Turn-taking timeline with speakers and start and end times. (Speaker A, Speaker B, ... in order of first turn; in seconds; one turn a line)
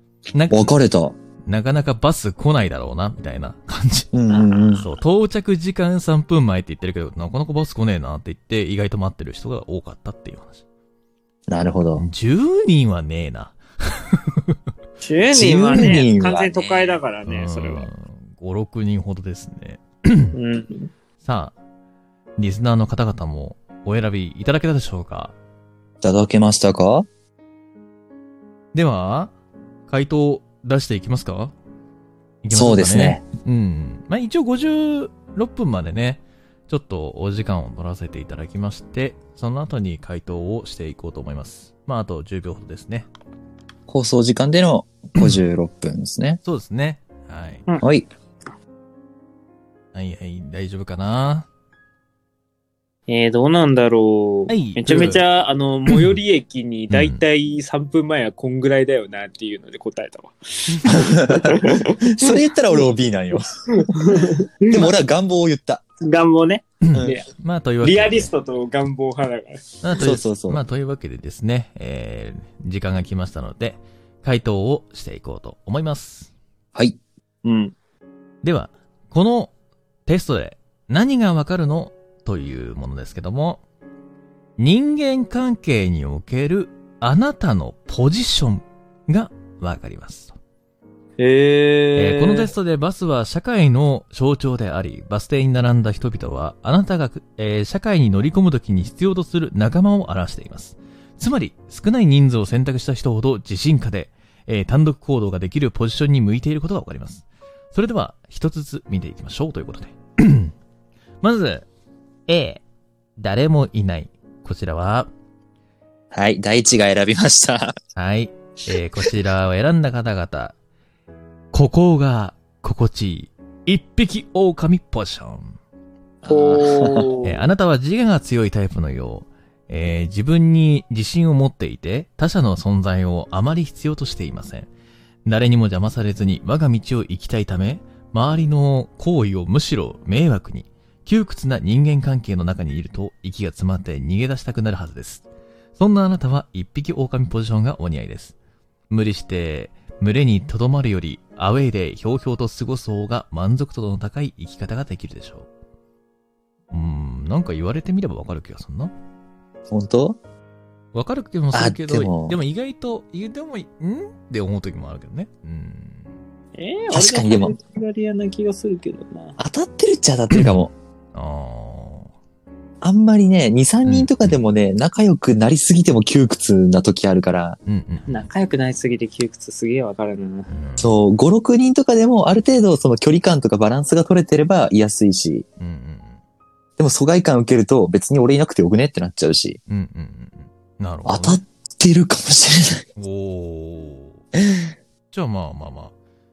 Speaker A: 0.3-0.7
Speaker B: 0.5-1.2
Speaker A: 1.5-4.1
Speaker B: 4.1-4.9
Speaker C: 4.3-4.9
Speaker A: 4.8-10.6
Speaker B: 11.5-12.1
Speaker A: 12.0-14.6
Speaker C: 15.0-17.9
Speaker B: 15.3-16.8
Speaker A: 17.3-20.4
Speaker C: 20.3-20.9
Speaker A: 21.2-21.5
Speaker A: 22.4-25.3
Speaker B: 26.0-27.1
Speaker A: 28.7-29.3
Speaker A: 29.9-31.5
Speaker A: 32.4-43.1
Speaker B: 32.5-33.2
Speaker B: 43.9-46.4
Speaker A: 46.5-47.7
Speaker B: 47.8-48.1
Speaker A: 49.9-51.5
Speaker C: 53.1-62.4
Speaker A: 54.5-55.2
Speaker A: 55.9-56.2
Speaker A: 56.9-57.2
Speaker B: 60.9-65.8
Speaker C: 63.8-64.9
Speaker C: 66.0-67.3
Speaker A: 66.8-68.3
Speaker C: 67.8-69.7
Speaker A: 69.8-76.3
Speaker B: 70.0-70.6
Speaker C: 77.4-77.8
Speaker A: 78.4-79.5
Speaker A: 80.1-83.6
Speaker A: 84.6-90.3
Speaker C: 91.2-92.5
Speaker A: 92.0-110.5
Speaker A: 111.2-111.7
Speaker A: 112.3-112.6
Speaker A: 113.2-115.1
Speaker B: 116.1-117.8
Speaker A: 118.0-120.5
Speaker A: 121.5-125.6
Speaker B: 126.2-127.1
Speaker C: 126.3-127.4
Speaker A: 127.2-134.7
Speaker A: 135.3-145.2
Speaker A: 145.8-148.3
Speaker A: 148.9-155.5
Speaker A: 156.7-158.9
Speaker B: 159.7-160.2
Speaker A: 160.9-166.1
Speaker B: 161.5-162.4
Speaker C: 166.6-169.4
Speaker B: 166.9-167.6
Speaker B: 169.4-170.7
Speaker A: 170.3-170.6
Speaker A: 171.1-172.1
Speaker B: 172.8-177.6
Speaker A: 173.8-174.3
Speaker A: 177.7-178.3
Speaker C: 178.1-180.5
Speaker A: 180.5-181.0
Speaker B: 180.8-185.5
Speaker A: 185.6-186.2
Speaker B: 186.8-189.6
Speaker A: 189.7-191.4
Speaker B: 191.1-192.9
Speaker A: 193.0-194.2
Speaker B: 194.4-194.7
Speaker A: 195.1-195.9